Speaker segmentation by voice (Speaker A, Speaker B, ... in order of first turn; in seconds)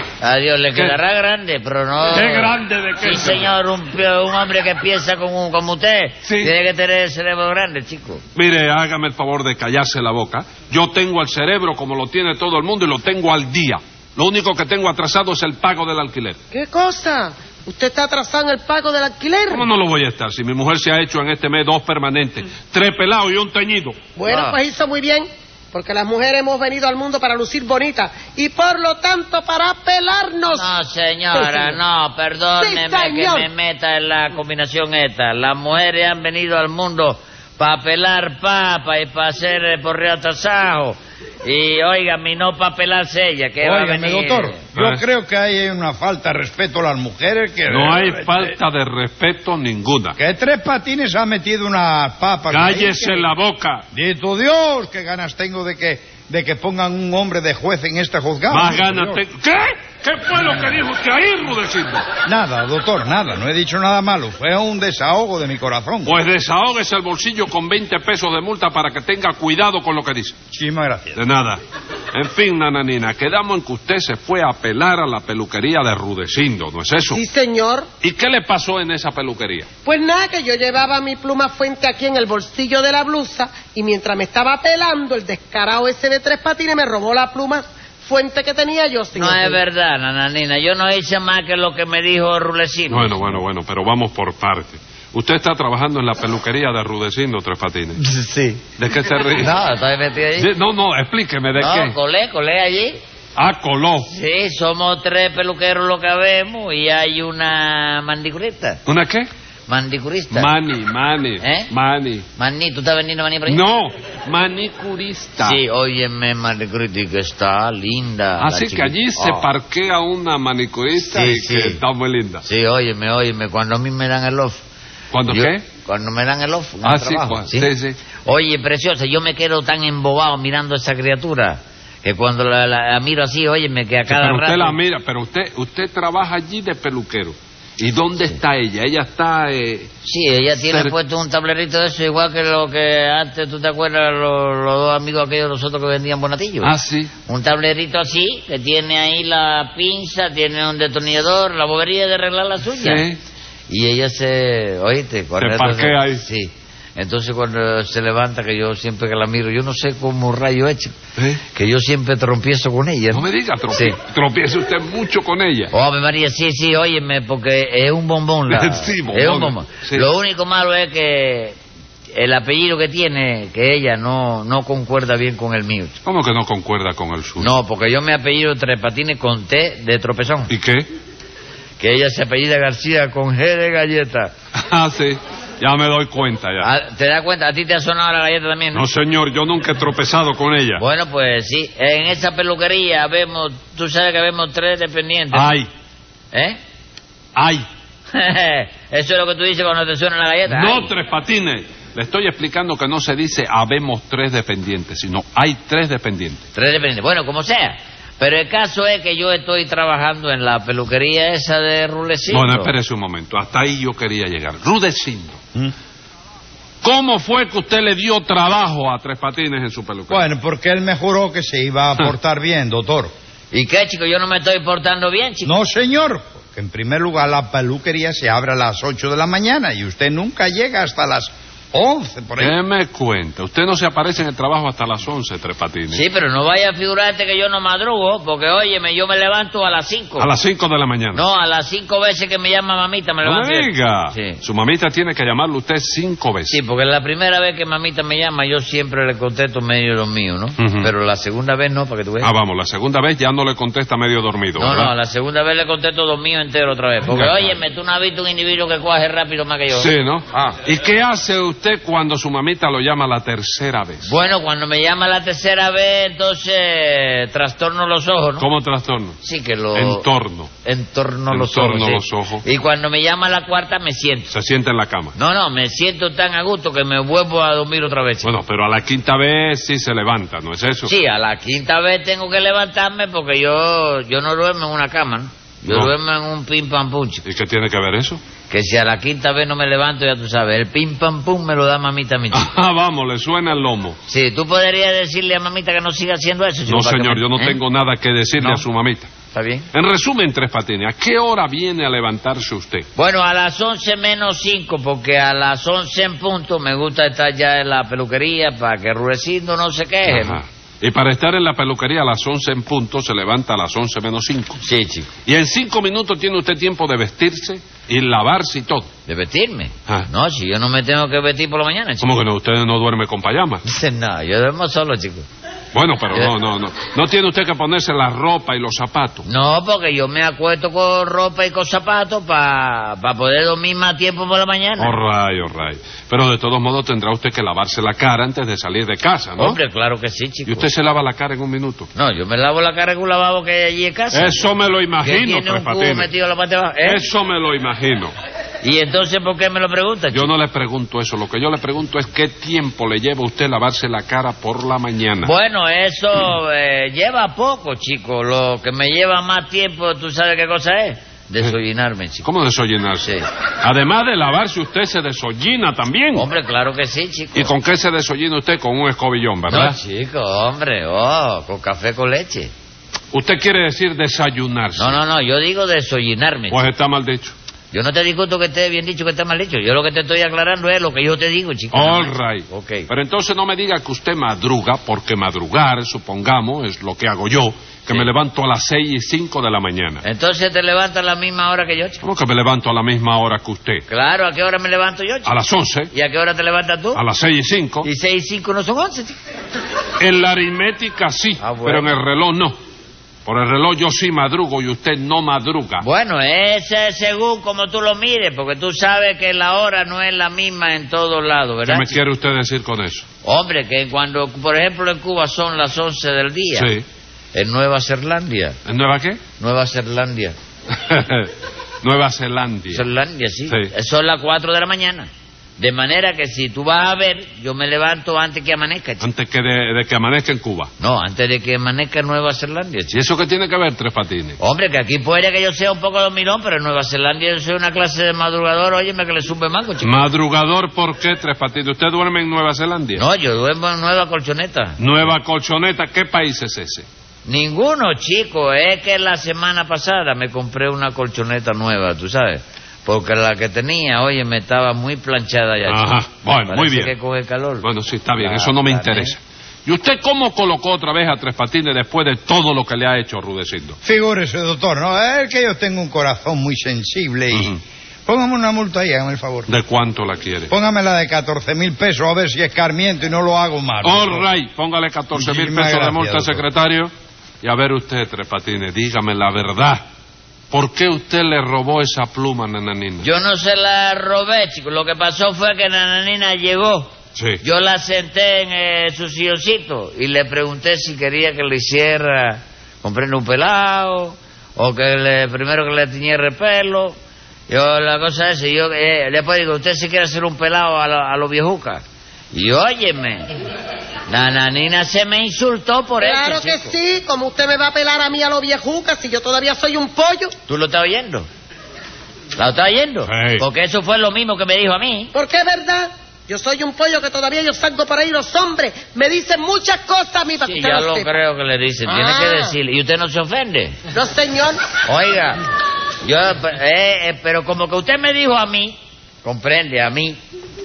Speaker A: 0.2-8.2, 24.3-24.6, 30.5-44.6, 89.2-93.2, 98.0-98.6, 99.3-100.5, 101.6-103.0, 104.1-108.8, 109.7-110.5, 111.4-111.7, 112.4-113.6, 115.4-119.5, 121.0-121.8, 122.4-124.6, 125.3-127.7, 128.2-134.8, 140.0-146.7, 147.3-153.0, 153.7-160.9, 161.5-163.9, 165.7-171.6, 172.1-175.9, 177.4-180.5, 181.8-184.3, 186.6-188.8, 190.8-195.5, 196.3-196.6, 198.1-200.9, 206.5-212.7, 223.5-225.5, 235.9-240.3, 241.1-244.4, 246.5-252.3, 254.6-259.9, 264.0-268.5, 269.2-270.1, 270.6-274.3, 275.1-278.3, 280.8-287.2, 288.5-292.5, 294.1-297.6, 298.4-298.6, 299.3-299.7, 302.9-310.4, 314.6-315.1, 319.1-322.2, 323.6-325.3, 329.2-334.9, 339.4-340.7, 341.9-344.4, 345.0-347.0, 348.6-350.3, 355.2-362.3, 366.1-367.5, 369.5-372.5, 374.8-376.6, 377.7-382.9, 390.0-392.0, 393.9-395.3, 395.9-397.0, 397.8-399.2, 401.4-401.9, 405.8-411.9, 413.2-416.7, 417.3-418.6, 419.4-420.4, 422.7-429.0, 430.8-432.9, 434.4-440.0, 442.9-444.8, 447.2-459.1, 483.0-486.9, 487.4-496.9, 497.5-503.3, 504.1-506.7, 510.5-511.3, 512.4-515.1, 520.4-523.8, 524.8-525.4, 526.0-530.2
Speaker B: 2.1-3.5, 6.2-6.5, 8.3-16.4, 19.5-23.9, 44.7-45.0, 47.7-50.2, 52.5-53.8, 58.5-62.0, 66.0-70.3, 71.2-71.6, 72.1-77.2, 78.0-79.7, 92.9-98.0, 98.8-99.5, 100.4-101.9, 103.3-104.1, 108.8-109.3, 110.3-112.2, 113.5-115.6, 118.4-122.4, 125.1-125.6, 126.8-128.0, 134.1-139.9, 140.6-140.9, 146.6-147.1, 152.8-153.2, 155.4-156.2, 161.2-161.4, 163.1-165.7, 168.5-170.0, 176.0-177.5, 180.5-180.9, 184.5-186.7, 188.7-190.8, 195.3-195.7, 197.3-197.6, 200.5-206.4, 212.3-215.4, 216.8-220.2, 232.4-236.0, 240.2-241.2, 243.2-246.6, 250.6-250.9, 252.2-254.9, 257.1-257.6, 259.7-264.1, 268.4-269.2, 269.7-270.5, 271.3-272.4, 274.3-275.1, 278.2-280.9, 285.6-285.9, 287.2-288.2, 292.3-294.0, 296.6-299.1, 299.7-302.9, 310.1-314.6, 315.2-318.9, 322.0-323.6, 325.7-329.2, 334.8-339.6, 340.5-341.9, 344.1-346.1, 346.8-348.1, 350.1-355.3, 362.2-363.1, 363.6-366.2, 367.3-369.8, 373.1-375.0, 376.5-377.3, 381.7-390.0, 392.0-393.8, 395.2-395.9, 396.9-397.9, 400.0-402.5, 403.2-405.8, 411.7-413.0, 416.5-416.8, 418.6-419.2, 420.7-421.3, 421.8-422.8, 429.0-430.7, 432.9-434.4, 439.8-443.0, 444.8-446.9, 455.6-456.9, 457.6-463.8, 467.3-467.6, 469.5-470.5, 473.8-476.9, 477.4-479.8, 480.5-483.1, 487.1-487.4, 513.0-513.4
Speaker C: 16.5-19.6, 24.2-30.7, 31.3-31.8, 32.6-33.5, 77.1-77.9, 79.8-89.6, 506.0-510.3, 515.1-521.1, 521.9-522.5, 523.9-524.6
Speaker D: 43.6-48.5, 50.2-53.2, 53.9-59.2, 62.2-66.2, 70.5-71.2, 220.1-223.1, 225.4-232.6, 463.8-469.5, 470.5-474.3, 475.1-476.4